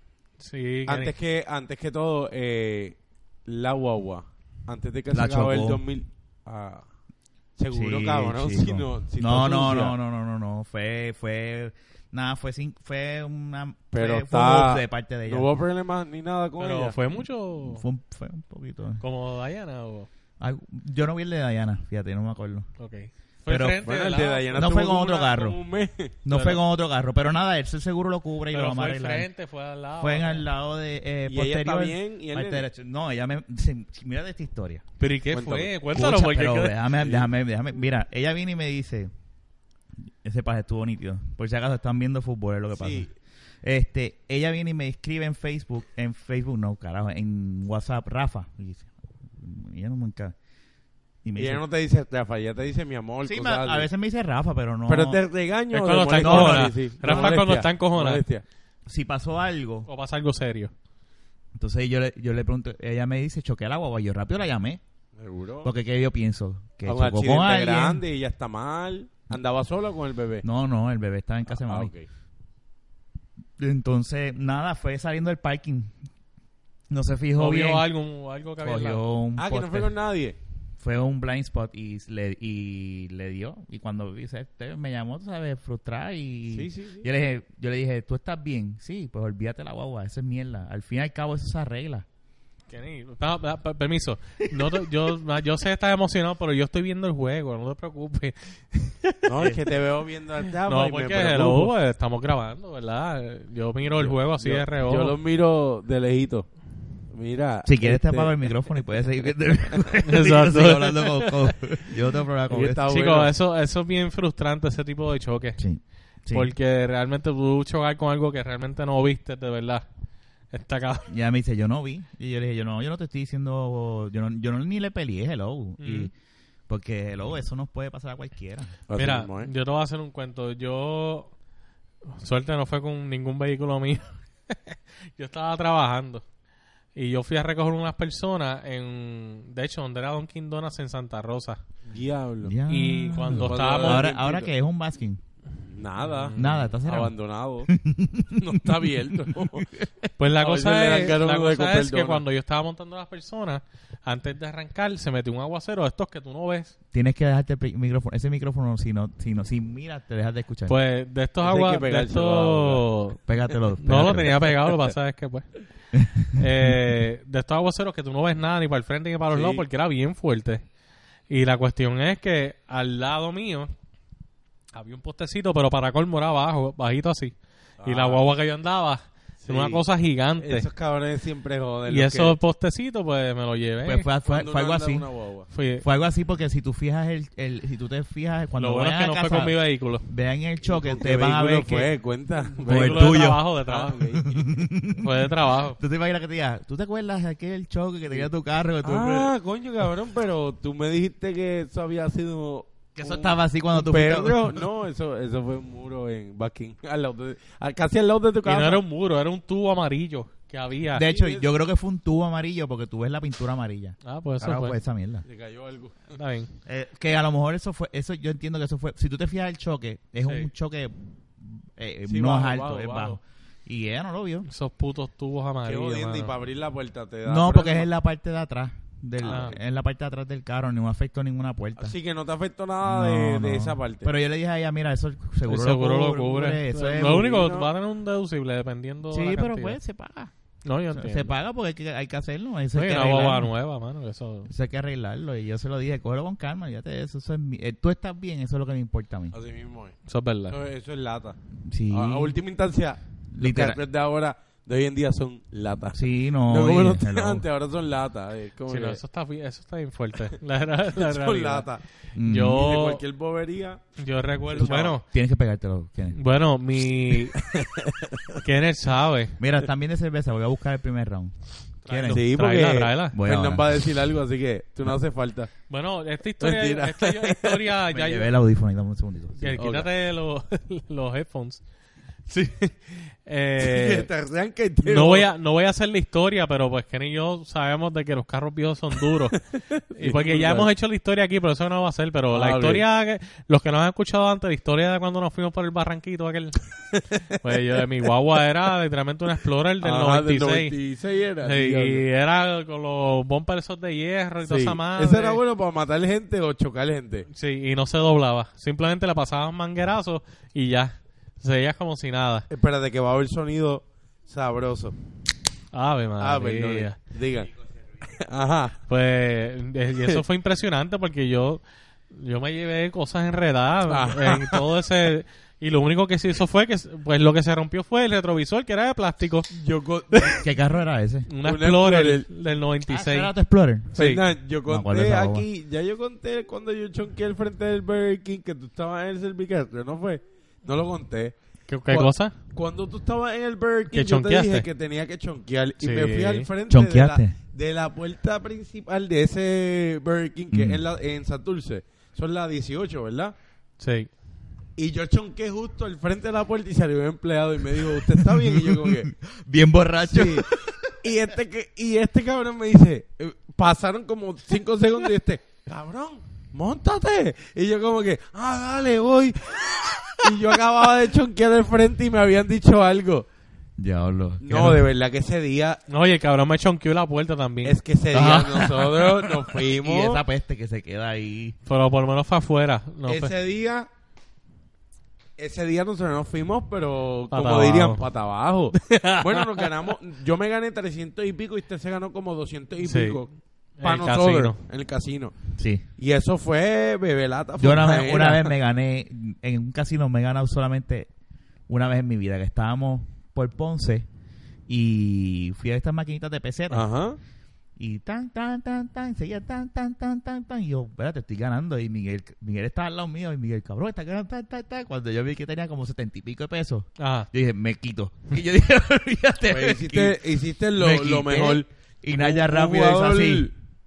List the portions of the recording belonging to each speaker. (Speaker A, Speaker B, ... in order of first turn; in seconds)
Speaker A: 0.4-1.1, 16.6-17.8, 19.0-20.1, 22.8-24.5, 26.3-26.6, 28.5-30.4, 35.0-36.8, 55.7-58.2, 59.9-60.7, 77.4-79.0, 92.7-99.3, 100.6-105.2, 110.0-111.4, 112.9-115.6, 116.3-119.8, 120.5-121.1, 125.8-126.1, 128.9-131.3, 132.1-136.2, 136.9-141.6, 142.7-144.1, 146.0-146.6, 150.2-156.7, 160.7-163.2, 163.8-165.5, 166.3-170.6, 171.3-173.7, 174.7-180.7, 181.9-184.1, 185.5-185.8, 188.6-190.1, 192.5-194.1, 194.9-195.8, 208.4-211.1, 214.0-214.8, 216.2-216.5, 220.2-220.5, 224.4-226.3, 229.3-229.5, 235.5-239.8, 240.7-241.3, 242.7-244.5, 250.1-250.6, 258.7-261.7, 262.2-263.0, 264.0-265.0, 266.1-267.4, 268.4-269.4, 271.9-273.2, 275.7-278.3, 279.4-281.6, 282.3-284.1, 284.9-289.4, 289.9-296.6, 297.3-300.8, 301.4-305.4, 307.3-312.5, 315.7-317.0, 318.9-329.5, 331.3-333.3, 333.9-334.2, 341.7-342.4, 343.9-344.6, 345.8-346.5, 353.8-354.1, 375.9-377.8, 381.6-383.3, 387.3-388.0, 388.7-389.7, 392.8-393.2, 393.8-394.6, 417.0-417.3
Speaker B: 0.9-6.8, 7.6-9.9, 13.9-16.9, 23.8-26.2, 31.3-32.7, 35.3-35.7, 37.0-37.3, 42.8-43.1, 51.4-53.9, 54.9-58.4, 65.2-65.7, 66.8-70.4, 71.5-72.0, 79.4-80.3, 86.5-87.1, 99.2-101.7, 103.9-106.5, 107.1-108.5, 112.5-113.3, 128.9-129.5, 141.8-142.6, 143.3-144.5, 145.7-147.7, 148.3-149.7, 150.3-152.2, 161.4-162.9, 169.3-169.6, 177.8-178.2, 179.4-179.8, 180.4-182.3, 184.2-185.5, 190.7-194.5, 198.8-208.8, 211.1-211.5, 215.2-216.2, 222.1-223.2, 225.7-227.9, 229.2-229.5, 231.8-234.1, 237.0-237.7, 249.3-250.0, 250.5-251.4, 251.9-259.0, 260.9-261.8, 262.4-263.8, 264.5-264.9, 267.4-268.4, 272.1-275.5, 276.4-277.7, 279.6-279.9, 283.6-285.3, 289.5-290.7, 292.3-292.8, 296.9-297.3, 299.8-302.0, 304.5-307.3, 312.5-314.9, 316.2-317.5, 318.1-318.8, 323.9-324.7, 329.5-330.5, 331.4-332.3, 334.0-341.3, 341.9-353.3, 354.8-359.1, 360.1-360.5, 361.0-373.2, 374.4-375.8, 377.6-380.2, 383.1-383.9, 385.4-393.3, 393.8-395.4, 396.0-398.5, 406.7-407.2, 419.5-423.5
Speaker C: 5.1-5.8, 7.7-15.5, 17.6-19.0, 20.4-22.7, 23.5-23.8, 24.5-25.6, 26.2-29.3, 30.0-34.8, 35.9-39.1, 40.1-43.1, 43.6-50.3, 51.2-51.6, 53.2-55.2, 56.2-56.8, 58.9-59.9, 61.5-64.8, 65.6-68.0, 70.4-71.9, 73.6-75.9, 76.9-77.8, 78.6-79.9, 80.8-92.0, 107.7-112.9, 115.6-116.5, 121.1-126.1, 126.7-128.7, 142.4-145.2, 146.3-147.1, 147.7-149.7, 156.9-160.8, 163.3-164.3, 165.9-166.8, 183.8-185.0, 185.8-189.5, 190.1-191.9, 192.7-193.5, 194.1-199.3, 203.0-204.6, 210.9-215.2, 216.7-224.5, 227.2-231.9, 232.8-237.3, 239.1-240.3, 240.9-243.5, 244.5-249.3, 251.7-252.4, 253.3-253.8, 255.9-257.4, 262.1-262.6, 264.6-266.2, 269.4-271.3, 271.9-272.2, 273.1-273.9, 277.9-279.6, 330.2-331.3, 332.9-333.9, 334.7-335.4, 346.7-347.3, 350.5-350.8, 357.8-360.9, 373.8-374.9, 378.1-381.6, 395.6-395.8, 397.6-401.1, 401.7-404.1, 404.7-406.9, 407.8-420.2, 420.8-423.5